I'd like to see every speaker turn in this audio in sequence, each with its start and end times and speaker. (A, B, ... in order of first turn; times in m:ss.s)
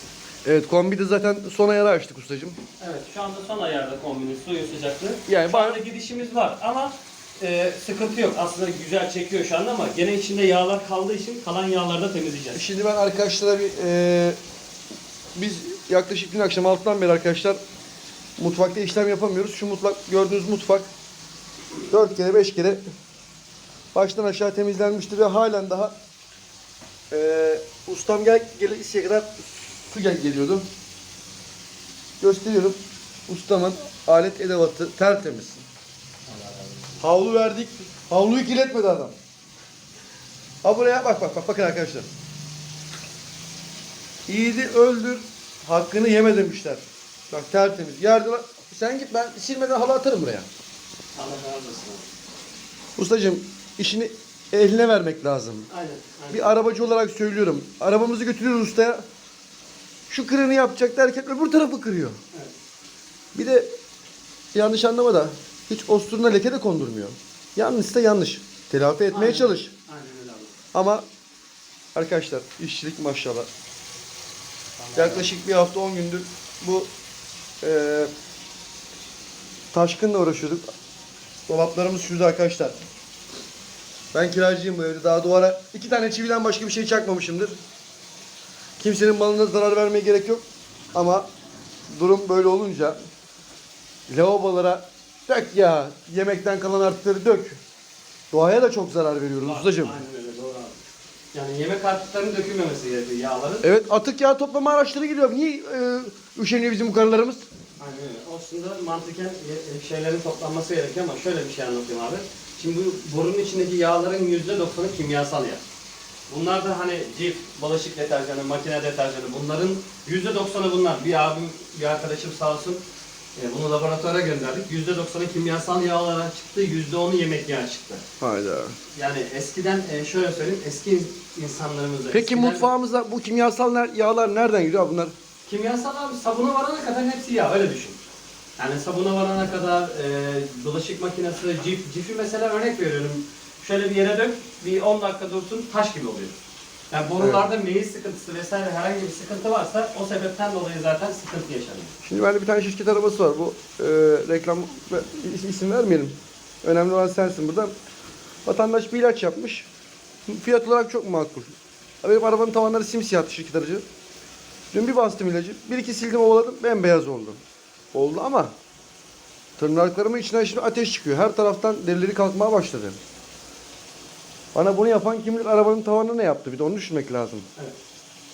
0:00.4-0:02.6 A
0:02.8-0:12.6 B
0:05.3-0:05.8 A
0:12.5-0:14.4 A
0:15.3-0:17.6 A
0:18.4-0:20.9 A
0:21.9-0:22.8 A
0:23.9-0:26.0 A
0:27.1-0:30.6 A
0:32.2-0:35.6 A
0:36.3-0:37.0 B
0:37.0-0:39.2 A
0:40.6-0:42.1 A
0:44.3-0:50.5 A
0:51.1-0:52.0 B
0:53.0-0:55.7 A
0:55.7-0:56.5 B
0:56.3-0:59.0 A
1:00.1-1:02.2 A
1:03.3-1:03.7 A
1:04.5-1:09.7 A
1:09.1-1:10.5 B
1:10.7-1:11.0 A
1:11.9-1:13.5 A
1:14.8-1:15.3 B
1:14.9-1:16.9 A
1:17.6-1:18.1 A
1:19.7-1:20.6 A
1:21.5-1:22.8 A
1:24.1-1:27.5 A
1:28.8-1:31.3 A
1:31.9-1:33.0 A
1:34.1-1:37.6 A
1:38.3-1:40.0 A
1:39.4-1:40.8 B
1:41.3-1:43.6 B
1:43.6-1:47.4 A
1:47.8-1:55.6 B
1:56.3-2:02.8 B
2:03.4-2:08.0 B
2:08.2-2:08.8 A
2:08.9-2:12.7 B
2:12.1-2:15.1 A
2:15.5-2:18.0 B
2:18.6-2:26.3 B
2:26.9-2:31.9 B
2:27.2-2:27.4 A
2:32.0-2:37.7 A
2:38.4-2:39.7 A
2:40.3-2:43.8 A
2:44.7-2:47.4 A
2:47.9-2:48.5 A
2:49.6-2:53.0 A
2:54.5-2:57.5 A